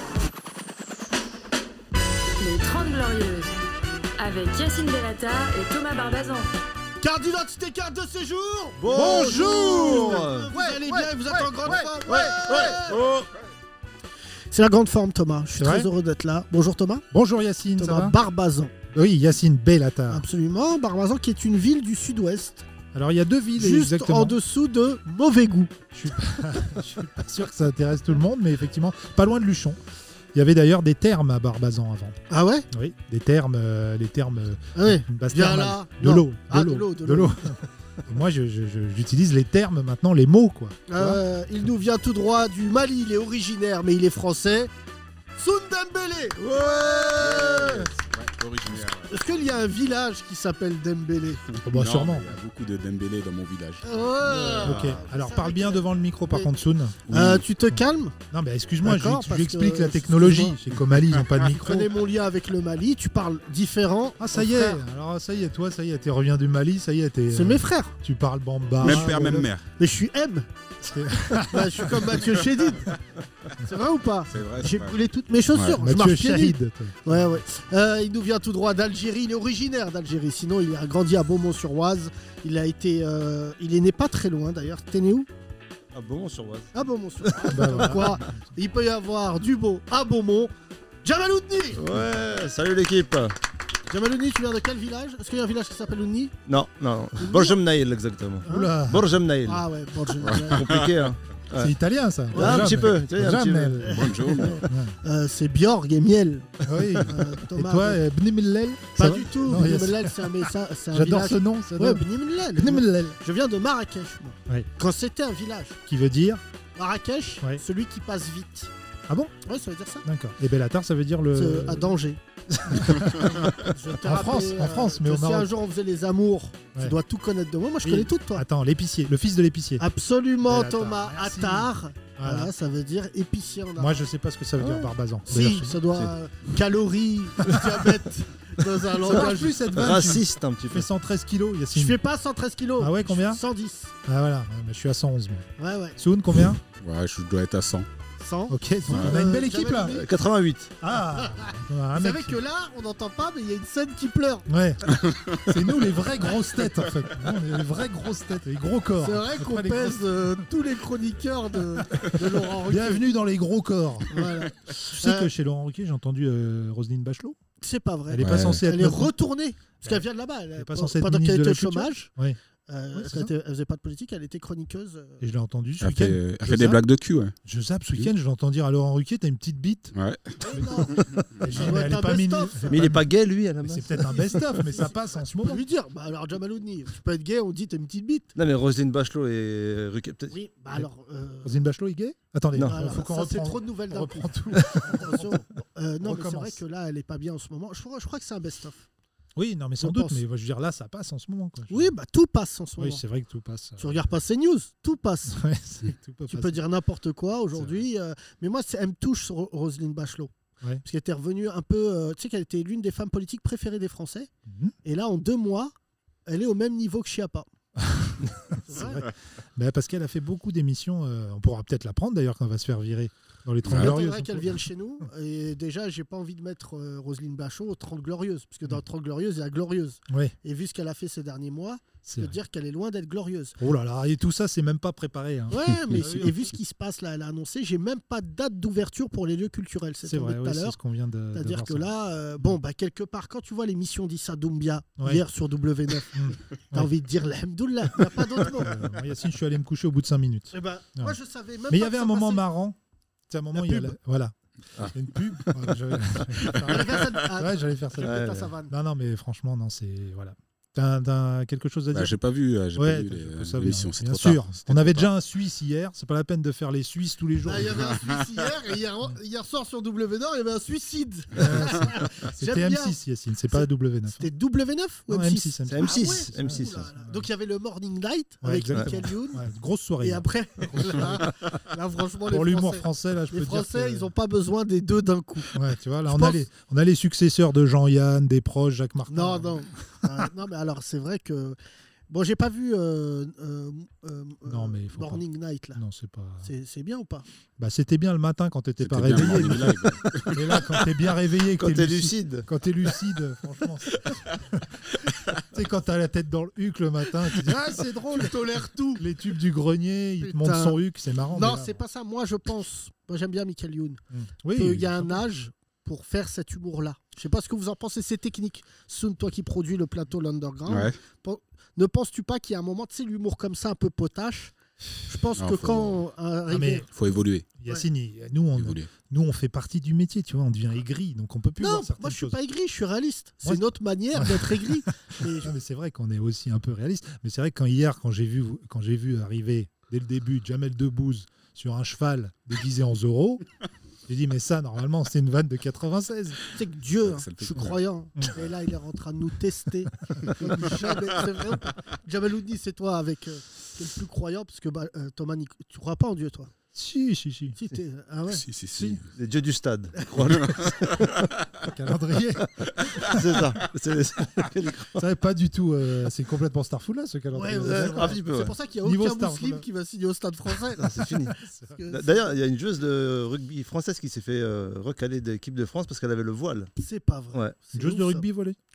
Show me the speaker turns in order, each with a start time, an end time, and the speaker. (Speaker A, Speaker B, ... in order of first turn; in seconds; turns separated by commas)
Speaker A: 2.4-3.5, Speaker A: 4.2-6.5, Speaker B: 7.0-13.0, Speaker C: 8.8-10.5, Speaker D: 8.9-12.8, Speaker C: 11.7-13.3, Speaker B: 14.5-17.0, Speaker D: 15.6-15.9, Speaker D: 17.1-18.1, Speaker B: 17.8-18.7, Speaker D: 18.9-20.2, Speaker B: 20.1-22.6, Speaker D: 22.9-24.4, Speaker B: 23.6-25.8, Speaker D: 25.9-29.8, Speaker D: 30.3-32.2, Speaker B: 32.3-32.7, Speaker D: 32.7-41.2, Speaker B: 34.7-37.5, Speaker B: 40.9-44.7, Speaker B: 45.4-47.9, Speaker C: 46.4-47.9, Speaker E: 47.2-49.2, Speaker B: 49.0-51.4, Speaker E: 51.5-53.9, Speaker D: 51.6-52.3, Speaker B: 53.8-56.5, Speaker C: 54.2-55.0, Speaker D: 54.6-57.8, Speaker B: 57.1-58.1, Speaker D: 58.3-61.9, Speaker B: 58.8-60.6, Speaker B: 61.4-64.8, Speaker D: 64.2-69.5, Speaker B: 67.3-68.0, Speaker E: 68.8-69.7, Speaker B: 68.8-69.1, Speaker B: 69.8-70.5, Speaker D: 70.8-72.0, Speaker B: 71.4-73.0, Speaker B: 73.6-85.3, Speaker E: 74.3-75.0, Speaker E: 75.5-75.8, Speaker D: 75.8-77.4, Speaker C: 85.9-86.7, Speaker B: 86.7-90.5, Speaker C: 87.2-88.2, Speaker D: 87.5-88.5, Speaker B: 91.0-91.8, Speaker C: 91.8-93.3, Speaker B: 93.9-96.4, Speaker C: 96.5-99.7, Speaker B: 97.2-97.6, Speaker B: 98.5-98.7, Speaker D: 98.5-99.1, Speaker B: 99.5-100.6, Speaker E: 100.2-101.0, Speaker C: 100.5-101.7, Speaker D: 101.6-105.0, Speaker B: 102.3-102.8, Speaker C: 102.3-104.7, Speaker B: 103.8-108.0, Speaker E: 103.9-104.6, Speaker D: 106.6-113.2, Speaker B: 108.9-115.8, Speaker D: 115.8-116.4, Speaker B: 116.8-118.7, Speaker D: 119.1-119.4, Speaker B: 119.4-120.1, Speaker D: 120.0-121.9, Speaker B: 121.3-128.4, Speaker D: 122.6-125.5, Speaker D: 127.8-129.8, Speaker B: 129.8-134.0, Speaker D: 130.4-132.5, Speaker D: 133.8-136.1, Speaker C: 134.6-134.9, Speaker B: 135.3-139.8, Speaker D: 139.0-142.0, Speaker C: 139.1-140.9, Speaker B: 141.7-143.9, Speaker D: 142.8-143.4, Speaker D: 144.0-146.6, Speaker B: 145.6-146.0, Speaker E: 146.8-147.9, Speaker B: 148.2-150.1, Speaker D: 148.5-150.0, Speaker C: 149.8-150.7, Speaker D: 150.8-152.4, Speaker B: 151.1-154.5, Speaker D: 154.5-160.4, Speaker E: 155.0-155.4, Speaker B: 159.0-163.0, Speaker D: 161.7-164.3, Speaker B: 164.1-165.3, Speaker D: 164.9-167.4, Speaker B: 167.6-172.1, Speaker D: 168.1-169.1, Speaker E: 168.2-168.6, Speaker D: 170.6-172.4, Speaker B: 172.7-175.2, Speaker D: 172.9-173.3, Speaker D: 175.2-176.8, Speaker E: 175.8-177.3, Speaker D: 177.4-179.9, Speaker E: 179.9-181.3, Speaker B: 180.4-182.8, Speaker D: 180.5-183.1, Speaker C: 182.7-184.3, Speaker D: 183.6-185.6, Speaker B: 184.1-184.9, Speaker B: 185.4-188.3, Speaker C: 188.3-190.3, Speaker B: 190.3-191.6, Speaker D: 191.4-195.4, Speaker C: 192.6-192.9, Speaker B: 192.6-198.9, Speaker D: 196.0-196.6, Speaker D: 199.3-201.9, Speaker B: 199.8-200.2, Speaker B: 201.7-203.0, Speaker D: 202.8-204.1, Speaker B: 203.8-205.4, Speaker D: 205.3-206.6, Speaker B: 206.3-214.3, Speaker D: 207.5-207.8, Speaker D: 214.5-214.7, Speaker B: 214.8-215.7, Speaker B: 216.3-217.5, Speaker D: 217.8-224.7, Speaker B: 218.7-219.1, Speaker E: 223.6-223.9, Speaker B: 223.7-233.6, Speaker D: 230.1-230.3, Speaker D: 232.0-232.3, Speaker D: 233.6-236.6, Speaker B: 235.5-240.8, Speaker D: 240.0-242.6, Speaker B: 241.3-248.9, Speaker D: 245.0-245.2, Speaker D: 246.1-246.9, Speaker D: 248.4-251.2, Speaker B: 250.5-252.4, Speaker D: 251.7-252.8, Speaker D: 253.3-262.2, Speaker B: 253.5-253.9, Speaker C: 254.8-256.7, Speaker B: 256.4-258.7, Speaker C: 258.0-258.5, Speaker E: 261.9-265.1, Speaker D: 262.7-267.9, Speaker B: 267.4-273.0, Speaker D: 271.3-274.3, Speaker B: 273.5-279.5, Speaker D: 275.1-277.3, Speaker C: 275.7-276.8, Speaker D: 278.4-281.3, Speaker B: 280.0-286.4, Speaker D: 282.3-284.1, Speaker D: 285.5-289.6, Speaker B: 289.1-291.6, Speaker B: 292.1-295.8, Speaker D: 294.4-295.2, Speaker D: 295.8-296.5, Speaker B: 296.4-297.3, Speaker D: 297.6-308.4, Speaker E: 298.8-300.3, Speaker C: 300.2-300.8, Speaker C: 301.6-302.5, Speaker B: 308.1-309.0, Speaker D: 308.9-311.8, Speaker B: 310.2-310.8, Speaker B: 311.3-326.9, Speaker D: 314.1-315.2, Speaker E: 320.7-320.9, Speaker E: 325.4-326.0, Speaker D: 326.5-326.9, Speaker E: 326.9-327.5, Speaker D: 327.6-332.4, Speaker E: 328.6-328.9, Speaker B: 331.6-335.5, Speaker D: 334.1-343.4, Speaker D: 344.1-346.4, Speaker B: 346.5-356.5, Speaker E: 347.0-347.8, Speaker D: 356.7-357.6, Speaker B: 357.6-358.4, Speaker E: 358.3-359.1, Speaker D: 358.8-359.0, Speaker C: 359.1-361.3, Speaker B: 360.0-360.3, Speaker E: 360.4-360.6, Speaker D: 361.6-363.4, Speaker C: 362.9-365.1, Speaker D: 364.9-369.6, Speaker B: 367.3-372.3, Speaker C: 367.6-368.5, Speaker C: 370.8-371.3, Speaker D: 371.0-371.8, Speaker C: 371.9-376.7, Speaker B: 376.8-378.2, Speaker D: 377.7-378.6